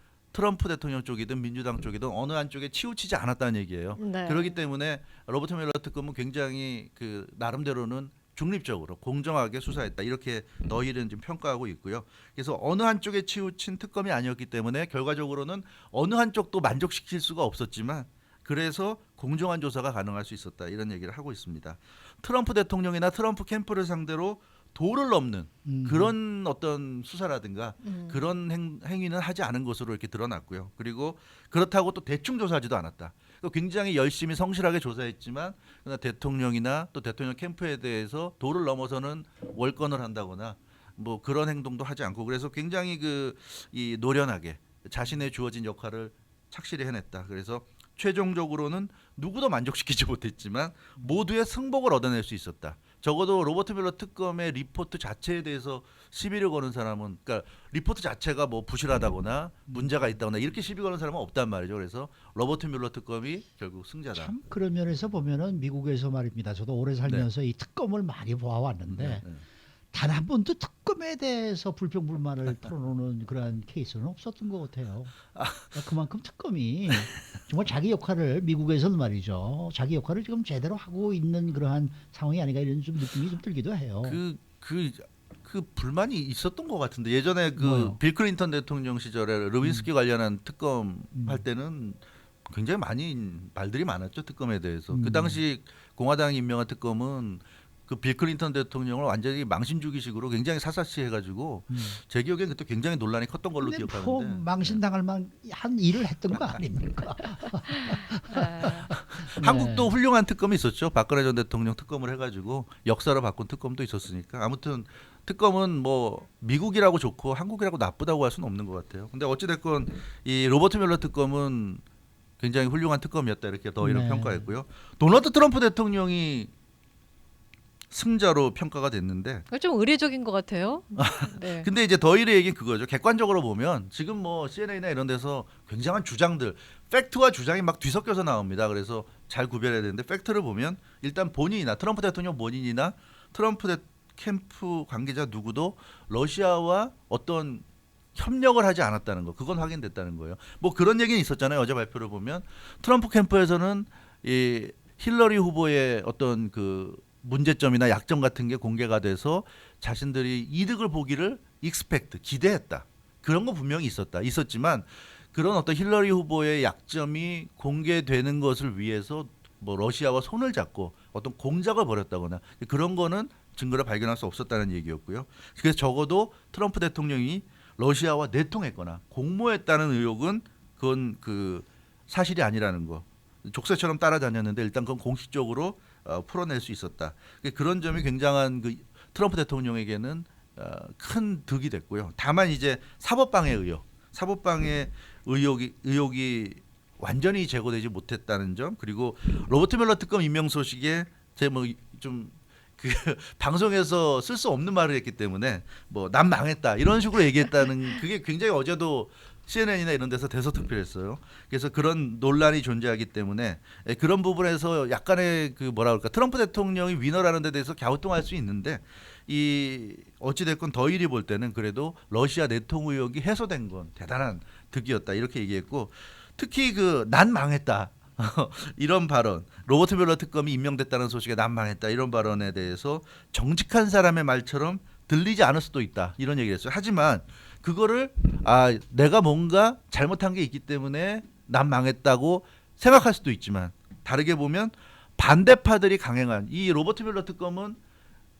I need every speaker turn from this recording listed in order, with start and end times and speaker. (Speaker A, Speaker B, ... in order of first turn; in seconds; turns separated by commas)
Speaker A: 0.3-64.3, Speaker B: 4.0-4.6, Speaker C: 25.6-26.1, Speaker B: 27.8-28.2, Speaker C: 64.1-69.2, Speaker A: 68.9-69.4, Speaker C: 69.9-84.2, Speaker A: 75.3-75.8, Speaker A: 84.0-104.8, Speaker C: 87.5-88.0, Speaker C: 91.1-91.4, Speaker C: 94.9-95.4, Speaker C: 101.7-102.0, Speaker C: 103.6-109.9, Speaker B: 108.3-108.9, Speaker A: 108.9-121.8, Speaker A: 122.4-126.5, Speaker C: 123.8-124.5, Speaker A: 127.9-129.4, Speaker B: 129.5-131.7, Speaker A: 130.9-247.8